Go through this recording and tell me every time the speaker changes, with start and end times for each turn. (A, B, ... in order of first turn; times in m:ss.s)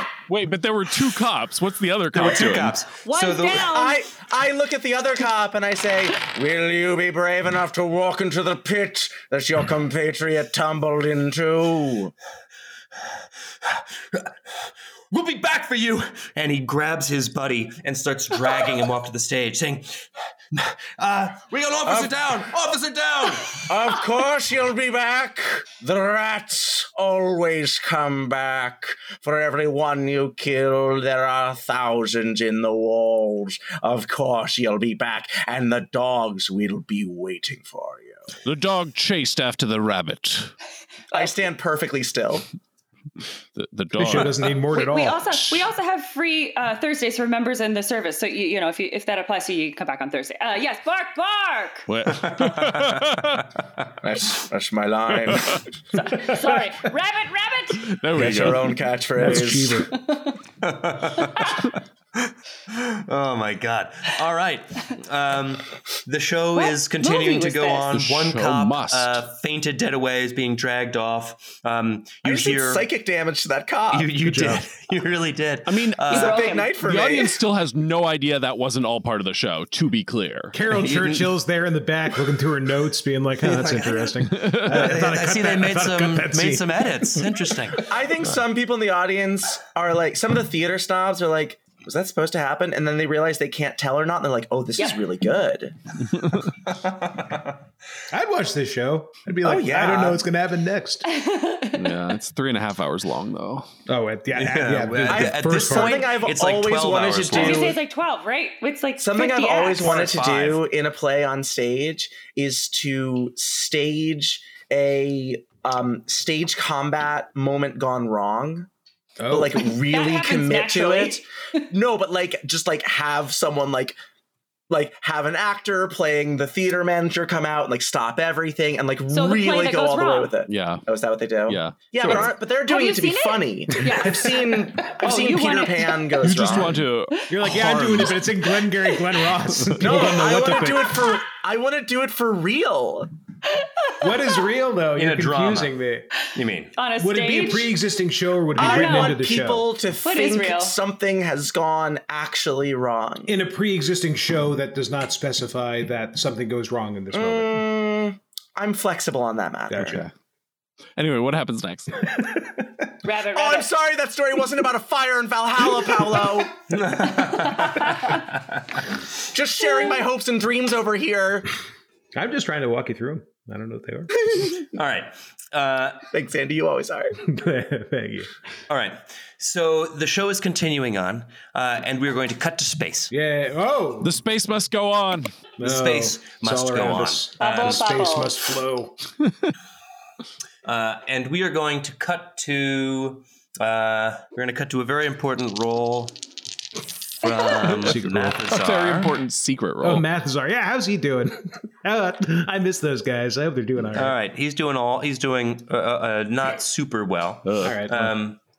0:00.3-0:02.8 A
0:02.1-0:03.7 B
0:03.0-0:04.0 C
0:03.6-0:12.1 D
0:13.6-0:23.9 B
0:21.9-0:22.1 D
0:23.7-0:38.4 D
0:38.4-0:40.5 A
0:41.1-0:42.4 D
0:43.5-0:44.5 A
0:44.0-0:45.2 E
0:44.7-0:51.9 C
0:51.9-0:53.5 A
0:52.1-0:53.2 B
0:54.0-0:55.6 D
0:55.3-0:55.6 A
0:55.9-0:57.9 C
0:57.8-0:59.5 A
0:58.2-0:59.9 D
0:58.2-0:58.6 B
0:59.2-0:59.9 E
1:00.0-1:00.4 C
1:00.6-1:12.9 B
1:06.6-1:07.9 C
1:07.9-1:09.2 A
1:12.2-1:14.1 D
1:13.9-1:16.4 B
1:14.2-1:14.7 E
1:15.7-1:16.2 A
1:16.1-1:16.8 C
1:16.1-1:17.4 D
1:16.8-1:20.5 A
1:20.5-1:27.4 E
1:20.7-1:21.3 B
1:23.4-1:27.8 B
1:24.4-1:24.7 A
1:27.9-1:35.8 D
1:36.7-1:37.5 B
1:38.1-1:41.0 E
1:39.4-1:40.2 D
1:41.1-1:42.2 C
1:41.8-1:43.7 A
1:43.9-1:46.2 E
1:44.3-1:47.8 B
1:45.1-1:47.8 D
1:47.3-1:50.0 C
1:49.0-1:58.7 D
1:49.8-1:50.6 B
1:59.2-1:59.6 E
1:59.3-2:04.0 D
1:59.5-2:01.6 C
2:04.7-2:16.8 D
2:09.1-2:10.3 C
2:10.5-2:10.8 A
2:11.5-2:12.4 A
2:12.7-2:16.6 C
2:16.2-2:18.2 A
2:17.3-2:21.0 E
2:19.8-2:23.1 D
2:23.6-2:24.0 C
2:24.0-2:26.1 E
2:25.0-2:25.7 B
2:26.3-2:26.7 B
2:26.8-2:27.7 C
2:27.0-2:29.7 E
2:28.6-2:33.3 D
2:28.6-2:29.2 C
2:30.0-2:30.8 C
2:33.3-2:37.6 E
2:37.1-2:40.0 D
2:39.7-2:40.1 E
2:39.8-2:40.1 A
2:41.0-2:42.2 A
2:42.1-2:42.7 E
2:43.0-2:43.7 C
2:43.3-2:46.6 D
2:46.7-2:48.6 B
2:47.7-2:48.2 C
2:49.3-2:51.5 D
2:52.2-2:54.2 E
2:54.7-2:56.0 B
2:56.1-2:57.2 D
2:57.2-2:58.3 E
2:58.7-3:03.1 B
3:03.1-3:04.2 E
3:04.0-3:05.3 A
3:05.6-3:09.0 E
3:05.6-3:07.8 B
3:07.4-3:08.4 C
3:10.6-3:16.2 B
3:17.2-3:19.1 B
3:17.6-3:18.4 E
3:18.5-3:20.1 A
3:19.8-3:24.1 E
3:24.0-3:28.4 B
3:27.5-3:27.8 A
3:27.6-3:28.2 E